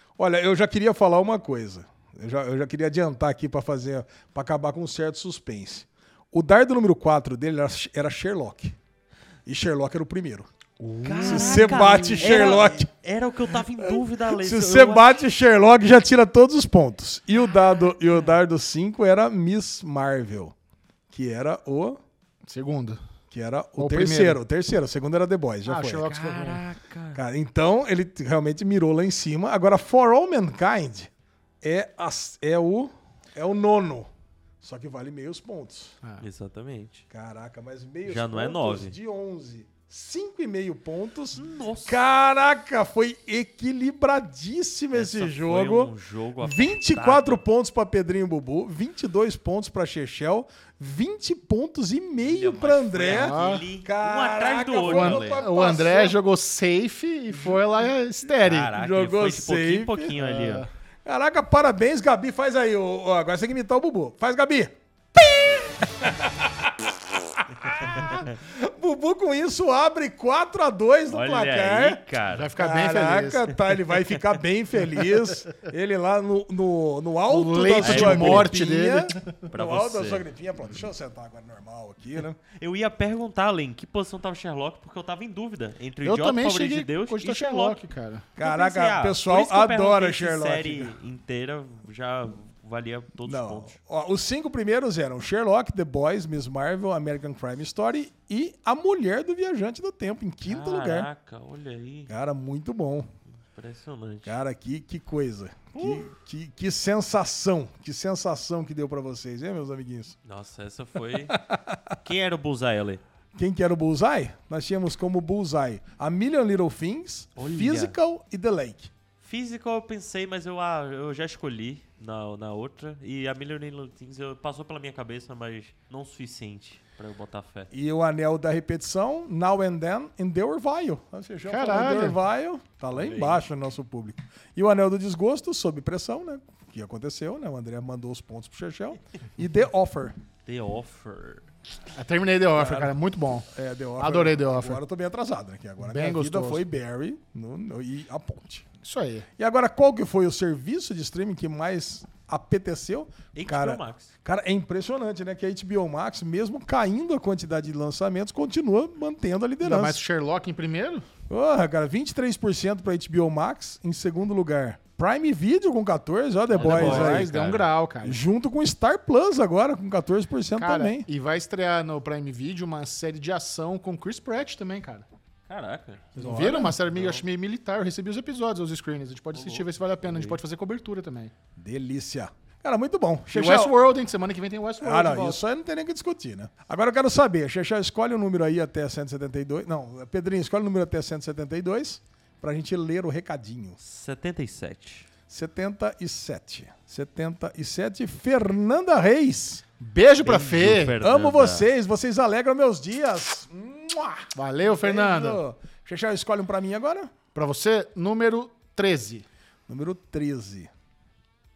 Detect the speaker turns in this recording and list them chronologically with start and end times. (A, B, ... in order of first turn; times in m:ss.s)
0:00.2-0:08.7 A
0:09.4-0:10.4 A
0:10.8-0:12.3 B
0:11.0-0:15.2 C
0:11.2-0:12.9 A
0:13.8-0:20.5 A
0:21.1-0:22.0 A
0:22.4-0:23.0 B
0:23.3-0:26.1 A
0:23.8-0:24.4 B
0:25.6-0:26.6 B
0:26.0-0:27.2 C
0:27.1-0:31.1 A
0:31.6-0:34.1 A
0:34.6-0:36.0 A
0:36.2-0:37.0 C
0:37.1-0:56.2 A
0:38.0-0:39.0 C
0:41.3-0:42.0 C
0:44.9-0:47.4 C
0:52.2-0:55.4 C
0:53.0-0:53.6 B
0:54.9-0:58.7 B
0:57.3-0:57.6 A
0:58.3-1:00.6 C
0:58.8-1:00.1 A
1:00.2-1:00.7 B
1:01.0-1:06.7 A
1:07.4-1:12.0 A
1:11.1-1:12.5 C
1:12.3-1:13.5 B
1:12.6-1:22.4 A
1:13.9-1:14.2 C
1:17.3-1:19.3 B
1:17.8-1:18.5 C
1:19.5-1:20.2 C
1:22.5-1:27.8 C
1:26.0-1:28.3 B
1:28.4-1:30.9 A
1:28.4-1:33.8 C
1:33.2-1:41.1 A
1:40.4-1:42.1 C
1:42.1-1:43.1 A
1:43.3-1:44.4 C
1:44.2-1:50.2 A
1:45.7-1:46.1 C
1:50.2-1:51.4 C
1:52.0-1:53.0 C
1:53.4-1:58.9 A
1:57.4-1:58.0 C
1:59.2-2:07.7 C
2:07.7-2:20.2 A
2:11.4-2:12.2 B
2:12.9-2:13.4 C
2:20.4-2:21.5 C
2:21.9-2:23.5 B
2:22.6-2:22.9 A
2:23.5-2:28.6 A
2:24.0-2:24.8 B
2:25.8-2:26.6 B
2:28.8-2:29.2 B
2:29.4-2:40.0 A
2:33.3-2:34.1 C
2:39.6-2:41.0 B
2:41.3-2:47.3 A
2:46.5-2:47.7 C
2:46.5-2:48.2 B
2:48.0-2:51.0 A
2:50.6-2:55.0 B
2:55.5-2:57.2 C
2:56.2-3:01.3 B
2:56.4-2:56.7 A
2:59.3-3:00.4 C
3:01.6-3:03.7 A
3:03.3-3:05.4 B
3:04.8-3:13.8 A
3:13.8-3:15.1 C
3:15.3-3:19.6 A
3:19.8-3:20.9 B
3:20.2-3:21.7 C
3:21.0-3:27.1 A
3:24.3-3:25.4 B
3:27.3-3:29.2 B
3:29.7-3:30.7 A